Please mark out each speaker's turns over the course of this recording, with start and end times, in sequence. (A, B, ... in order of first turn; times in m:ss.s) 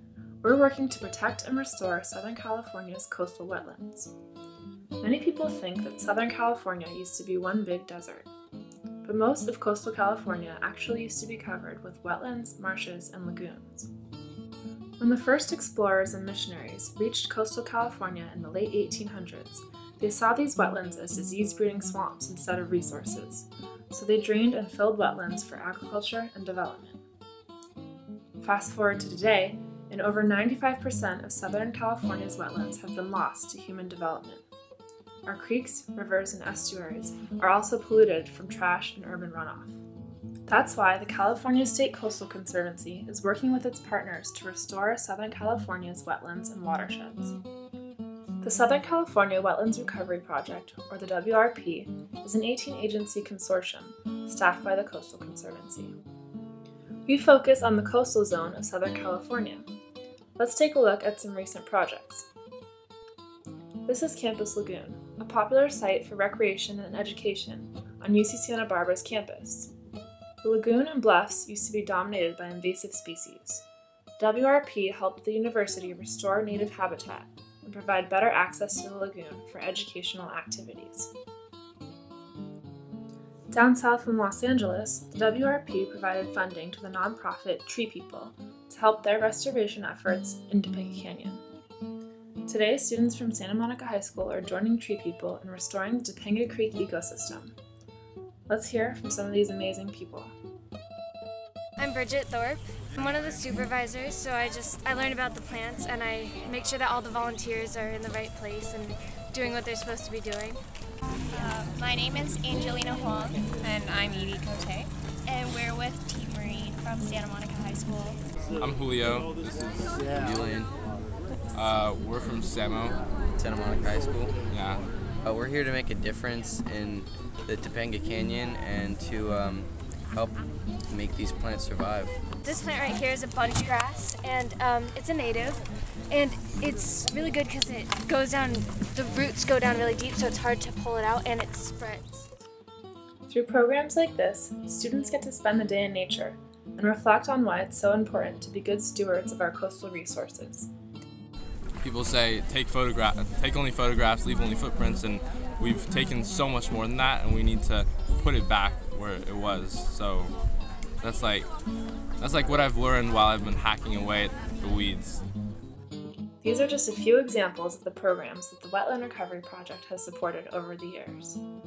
0:00.4-0:04.1 A
0:05.0-0:08.3 A
0:09.0-0:13.9 A
0:15.0-0:27.0 A
0:28.4-0:34.4 A
0:35.3-0:39.8 A
0:40.5-0:47.4 A
0:48.4-0:56.0 A
0:57.1-0:59.7 A
1:00.4-1:02.3 A
1:03.8-1:09.7 A
1:10.4-1:13.6 A
1:14.2-1:21.1 A
1:23.5-1:31.4 A
1:32.5-1:37.6 A
1:38.5-1:40.3 A
1:41.8-1:50.6 B
1:51.3-1:58.2 C
1:58.6-2:00.0 D
2:00.2-2:00.7 E
2:01.5-2:03.0 D
2:03.4-2:04.3 E
2:04.5-2:04.8 D
2:05.2-2:10.4 E
2:10.9-2:12.2 E
2:12.4-2:22.1 B
2:23.3-2:30.7 A
2:31.8-2:40.3 D
2:41.0-2:41.5 D
2:42.2-2:45.2 D
2:46.4-2:51.4 A